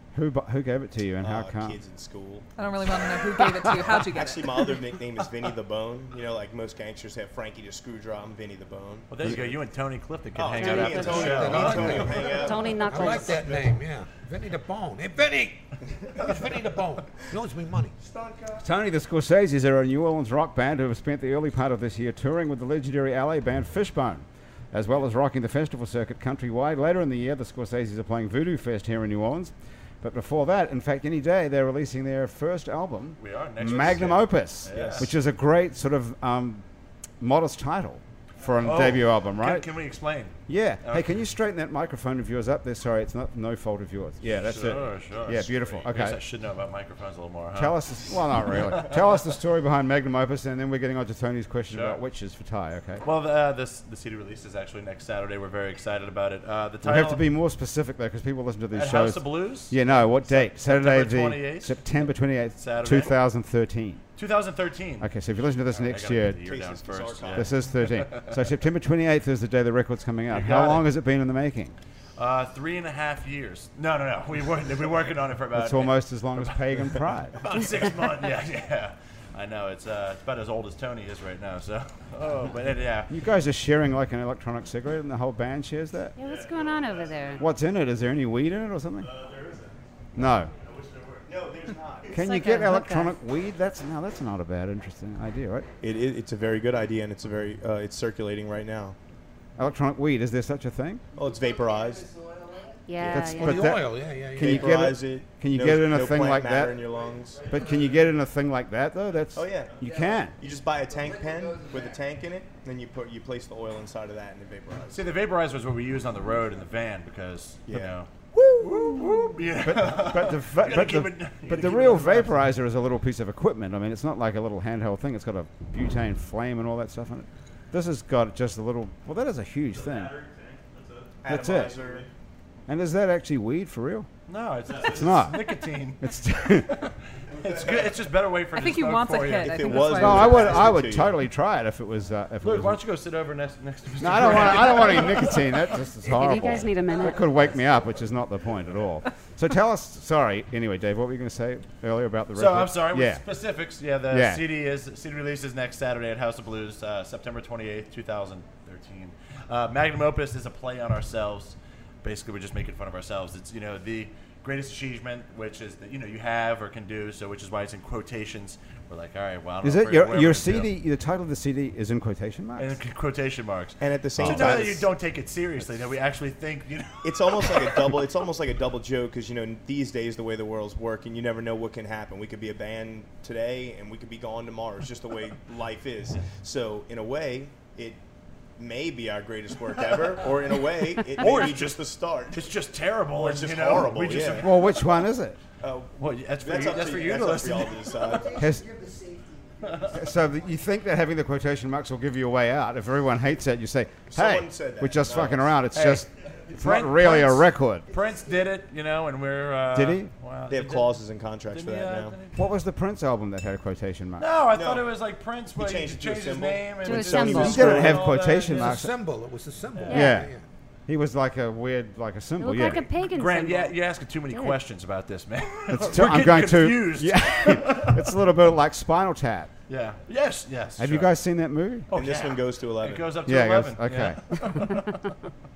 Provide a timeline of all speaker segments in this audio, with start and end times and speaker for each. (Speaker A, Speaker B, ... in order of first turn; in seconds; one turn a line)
Speaker A: 0.1-1.8
Speaker B: 1.2-2.5
Speaker C: 2.6-4.7
Speaker B: 4.0-9.4
Speaker D: 9.1-12.5
Speaker B: 10.3-13.7
Speaker E: 10.6-13.4
Speaker F: 10.9-17.9
Speaker B: 18.0-18.6
Speaker A: 18.6-36.6
Speaker D: 33.2-35.1
Speaker B: 34.7-35.1
Speaker A: 37.2-39.7
Speaker D: 38.6-41.1
Speaker A: 40.5-46.2
Speaker D: 44.2-47.9
Speaker A: 47.5-53.0
Speaker D: 51.7-52.0
Speaker D: 53.0-57.3
Speaker A: 56.8-64.0
Speaker D: 58.7-61.8
Speaker D: 62.6-63.2
Speaker D: 64.2-65.1
Speaker A: 65.0-66.5
Speaker D: 65.7-68.4
Speaker B: 66.5-67.5
Speaker A: 67.3-71.8
Speaker D: 70.3-70.9
Speaker D: 72.2-83.1
Speaker A: 75.5-77.5
Speaker A: 83.1-86.2
Speaker E: 86.2-87.5
Speaker A: 87.4-89.1
Speaker B: 89.2-89.5
Speaker A: 90.1-90.5
Speaker B: 91.2-92.2
Speaker A: 92.1-95.7
Speaker E: 92.1-93.2
Speaker B: 95.8-99.0
Speaker A: 99.6-101.0
Speaker B: 101.2-102.1
Speaker E: 102.9-103.8
Speaker A: 103.0-106.9
Speaker F: 103.2-104.9
Speaker B: 104.4-107.5
Speaker A: 107.5-110.4
Speaker B: 109.3-109.8
Speaker B: 110.3-115.0
Speaker D: 114.9-122.5
Speaker B: 117.7-117.9
Speaker A: 119.6-130.2
Speaker B: 131.2-132.1
Speaker A: 131.2-131.8
Speaker A: 132.7-134.1
Speaker D: 134.3-140.1
Speaker A: 134.8-136.8
Speaker B: 137.4-137.9
Speaker C: 138.5-140.5
Speaker B: 139.4-141.2
Speaker A: 139.9-142.8
Speaker D: 142.4-145.8
Speaker A: 144.0-153.2
Speaker E: 146.0-147.3
Speaker D: 152.3-170.7
Speaker A: 154.1-154.5
Speaker A: 169.6-172.8
Speaker D: 172.6-178.1
Speaker B: 173.8-174.9
Speaker A: 174.2-174.6
Speaker B: 177.0-188.0
Speaker B: 188.6-192.4
Speaker D: 191.1-194.9
Speaker B: 193.1-194.5
Speaker A: 194.3-195.4
Speaker B: 195.6-198.4
Speaker D: 196.0-198.2
Speaker A: 198.3-198.8
Speaker D: 199.6-200.0
Speaker A: 199.8-207.9
Speaker B: 204.1-205.5
Speaker D: 205.7-212.4
Speaker A: 209.7-210.1
Speaker B: 210.5-212.2
Speaker A: 212.3-214.3
Speaker D: 214.2-218.8
Speaker B: 214.5-214.9
Speaker B: 215.6-218.0
Speaker E: 216.8-217.8
Speaker A: 217.2-218.9
Speaker F: 218.4-220.4
Speaker D: 219.8-220.1
Speaker E: 219.9-220.2
Speaker A: 219.9-220.3
Speaker A: 220.9-222.8
Speaker E: 222.4-223.8
Speaker D: 223.1-228.2
Speaker E: 224.3-224.6
Speaker A: 225.7-229.5
Speaker D: 229.7-231.1
Speaker A: 230.8-231.9
Speaker D: 231.9-235.1
Speaker B: 231.9-233.2
Speaker A: 233.2-234.2